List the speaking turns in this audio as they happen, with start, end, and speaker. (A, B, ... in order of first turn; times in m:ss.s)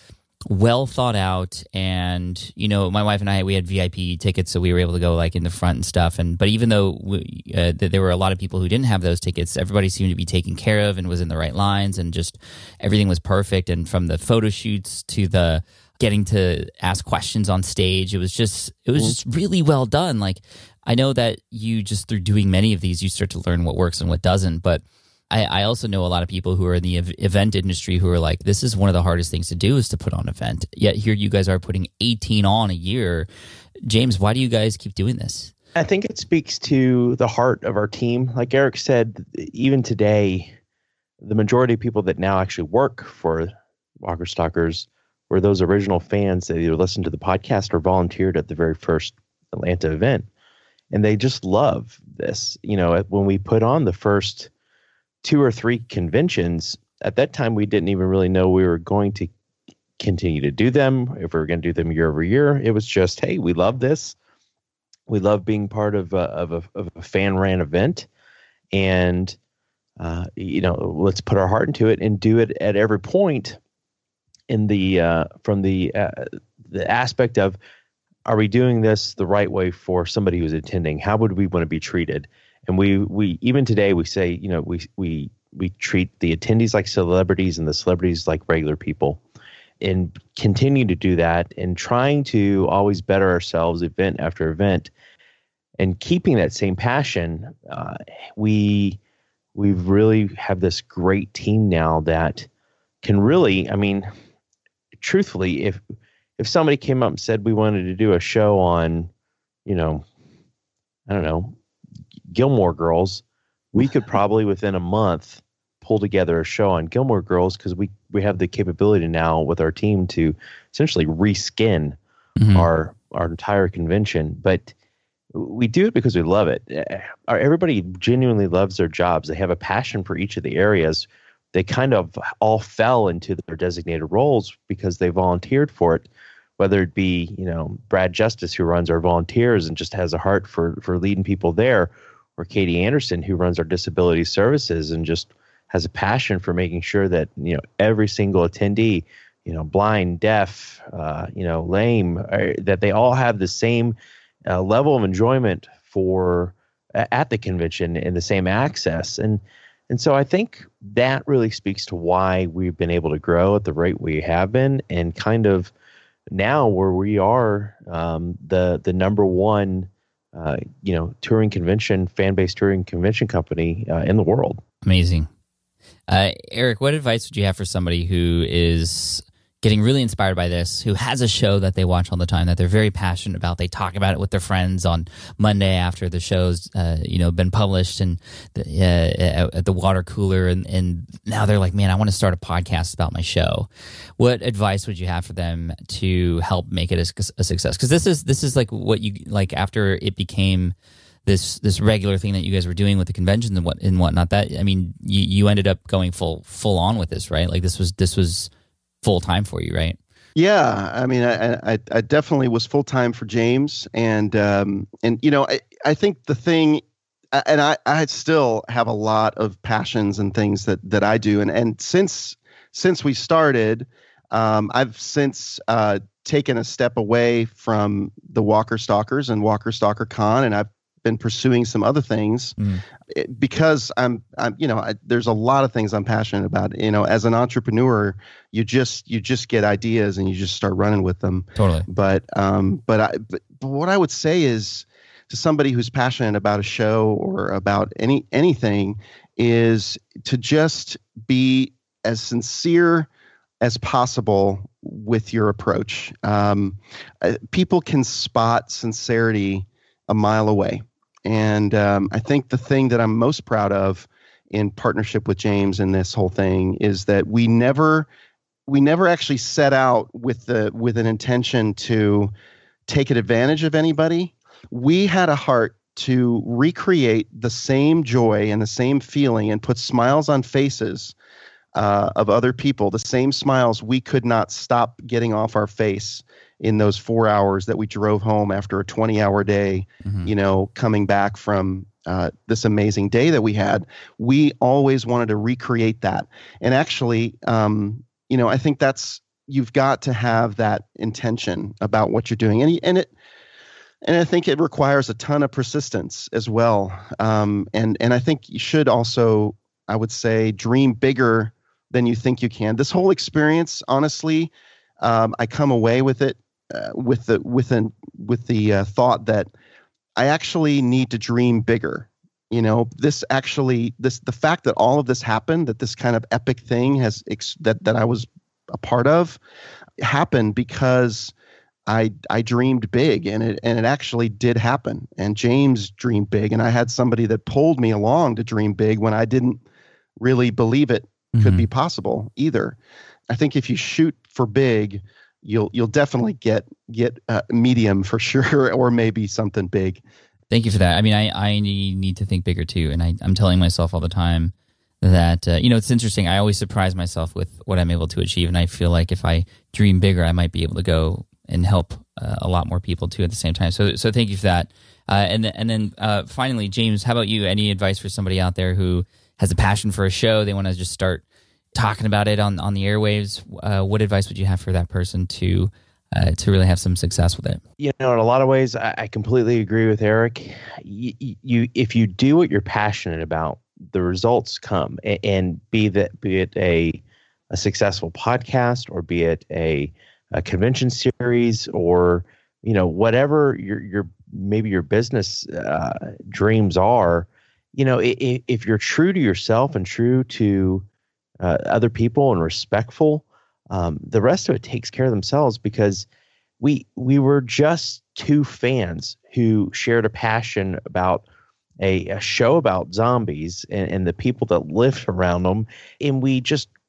0:00.5-0:33.3 A
0:33.9-0:35.5 A
0:35.8-0:40.6 B
0:41.2-0:50.3 B
0:50.9-0:54.5 B
0:55.2-0:59.3 B
1:00.0-1:04.2 B
1:05.1-1:08.1 B
1:08.7-1:09.4 B
1:10.0-1:13.6 B
1:14.5-1:17.6 B
1:18.3-1:29.2 B
1:29.8-1:34.9 B
1:35.8-1:39.0 B
1:39.6-1:42.5 B
1:43.0-1:44.1 B
1:45.0-1:45.8 B
1:46.4-1:49.1 B
1:49.7-1:50.0 B
1:51.1-1:51.6 B
1:52.3-2:02.0 B
2:02.4-2:02.7 A
2:02.5-2:04.7 B
2:05.3-2:16.1 B
2:16.6-2:34.0 B
2:34.5-2:45.7 B
2:46.3-2:54.6 B
2:54.8-2:55.3 A
2:56.1-3:13.7 A
3:14.2-3:20.8 A
3:21.3-3:28.5 A
3:29.0-3:30.0 A
3:30.4-3:52.6 C
3:52.6-3:52.8 A
3:53.1-4:13.1 C
4:01.6-4:01.9 A
4:13.6-4:28.1 C
4:28.7-4:32.3 C
4:32.9-4:41.2 C
4:41.7-5:03.1 C
4:50.0-4:50.3 A
5:04.0-5:19.5 C
5:20.2-5:29.4 C
5:30.0-5:31.3 C
5:31.9-5:39.6 C
5:40.2-5:42.8 C
5:41.3-5:41.6 A
5:43.3-5:50.0 C
5:50.5-6:11.2 A
6:11.8-6:17.6 A
6:17.8-6:40.9 B
6:41.4-6:46.1 B
6:46.6-6:51.2 B
6:51.8-6:56.7 B